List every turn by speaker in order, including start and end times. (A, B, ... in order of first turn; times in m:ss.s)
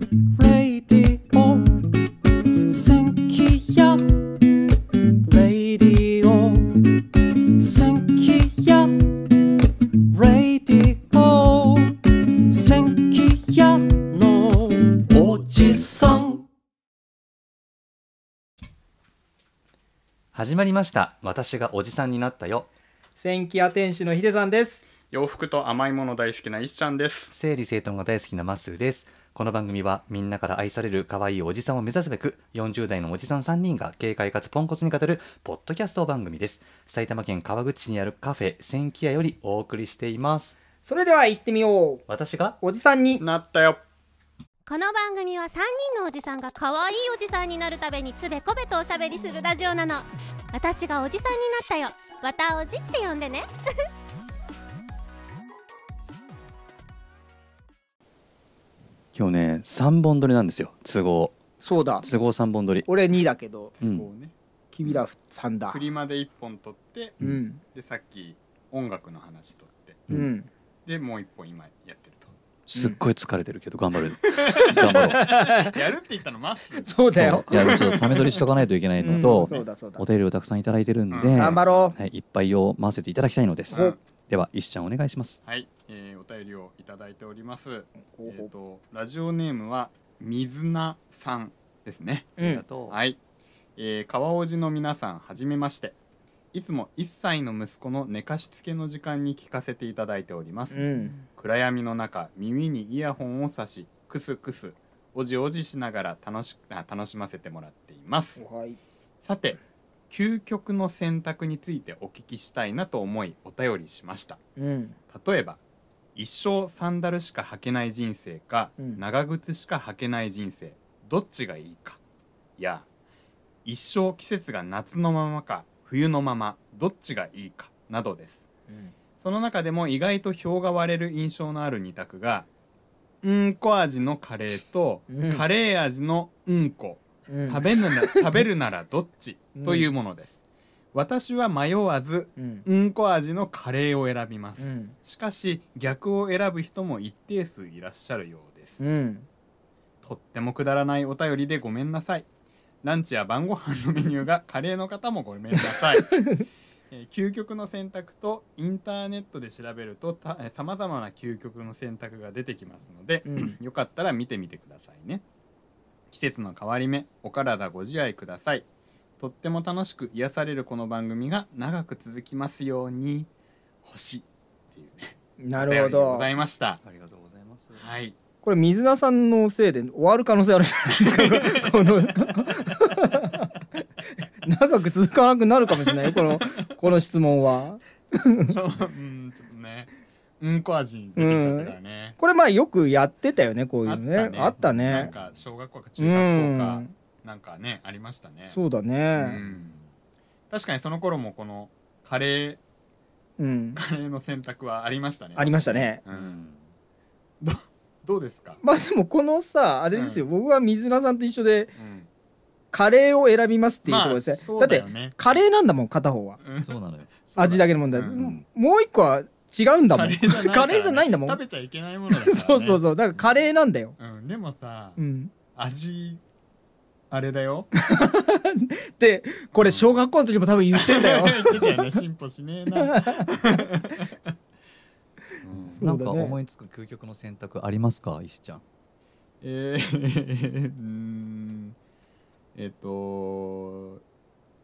0:00.3-0:02.0 A
0:02.7-0:04.0 B
0:02.7-0:03.9 A
0:05.3-0:06.9 B
0:07.6-0:08.2 B
0:07.8-0:09.1 A
0:10.1-0:12.0 A
0:10.5-0:11.5 B
0:12.6-0:15.3 A
0:15.2-0:16.1 C
0:16.0-0:16.4 A
0:20.3-0:22.7 C
0:23.2-0:24.8 D
0:25.1-0:27.3 E
0:27.3-0:40.6 C
0:40.8-0:42.0 D
0:42.1-0:42.6 C
0:42.6-0:43.2 D
0:43.2-0:43.8 E
0:44.7-0:53.5 A
0:59.1-1:01.4 C
1:01.6-1:02.1 D
1:02.0-1:02.9 C
1:02.8-1:03.7 D
1:03.7-1:05.0 E
1:03.8-1:04.1 C
1:04.7-1:05.8 D
1:05.7-1:07.2 E
1:07.2-1:07.6 D
1:07.7-1:10.0 E
1:10.1-1:10.5 D
1:10.8-1:12.3 E
1:12.7-1:15.2 C
1:12.7-1:13.0 D
1:14.2-1:17.1 E
1:14.7-1:15.8 D
1:16.8-1:18.4 D
1:17.1-1:25.4 C
1:18.2-1:18.4 E
1:19.0-1:20.0 D
1:19.2-1:19.6 E
1:21.1-1:21.9 E
1:21.3-1:22.0 D
1:23.7-1:24.0 E
1:23.7-1:24.0 D
1:25.4-1:33.2 E
1:28.1-1:28.5 D
1:32.4-1:32.6 D
1:32.4-1:33.0 C
1:33.8-1:36.0 E
1:36.5-1:48.4 E
1:40.7-1:41.2 D
1:48.4-1:48.8 D
1:49.2-1:49.6 E
1:50.1-1:54.4 E
1:54.6-1:55.0 D
1:55.1-1:55.6 E
1:56.1-2:02.0 E
2:02.6-2:02.8 E
2:03.6-2:08.4 E
2:08.7-2:08.9 D
2:09.2-2:12.5 E
2:13.2-2:28.8 E
2:15.1-2:15.5 D
2:17.3-2:18.4 D
2:19.5-2:19.9 D
2:22.4-2:22.6 D
2:24.6-2:25.0 D
2:28.8-2:29.3 D
2:30.0-2:32.3 E
2:32.8-2:36.4 E
2:36.1-2:36.4 D
2:36.9-2:45.2 E
2:43.3-2:43.6 D
2:46.1-2:48.6 E
2:49.2-2:53.3 E
2:53.8-2:56.8 E
2:55.4-2:56.3 D
2:56.8-2:57.9 C
2:57.7-2:58.1 E
2:58.4-3:03.5 D
3:01.0-3:02.9 E
3:04.4-3:08.6 D
3:06.1-3:06.4 E
3:08.5-3:12.2 E
3:11.2-3:15.1 D
3:13.8-3:18.6 E
3:14.6-3:15.1 C
3:16.0-3:16.9 D
3:18.5-3:19.4 D
3:19.1-3:19.8 E
3:19.4-3:19.8 C
3:20.5-3:22.6 E
3:23.4-3:23.8 D
3:23.7-3:26.4 E
3:25.4-3:26.0 D
3:26.1-3:26.6 C
3:27.4-3:28.6 E
3:28.6-3:31.7 D
3:29.9-3:30.2 E
3:31.8-3:32.1 E
3:32.7-3:36.4 D
3:33.8-3:35.2 E
3:36.4-3:36.7 E
3:36.6-3:37.2 C
3:37.3-3:38.2 E
3:37.4-3:41.4 D
3:38.0-3:38.4 C
3:39.9-3:43.4 E
3:42.1-3:43.9 D
3:44.0-3:45.0 E
3:45.0-3:45.3 D
3:45.5-3:46.2 E
3:47.1-3:47.7 E
3:47.7-3:51.9 D
3:49.5-3:50.0 E
3:50.7-3:54.2 E
3:52.8-3:53.3 D
3:55.4-3:55.8 E
3:55.6-3:58.6 C
3:55.6-3:56.4 D
3:59.4-4:01.8 E
4:02.5-4:04.0 E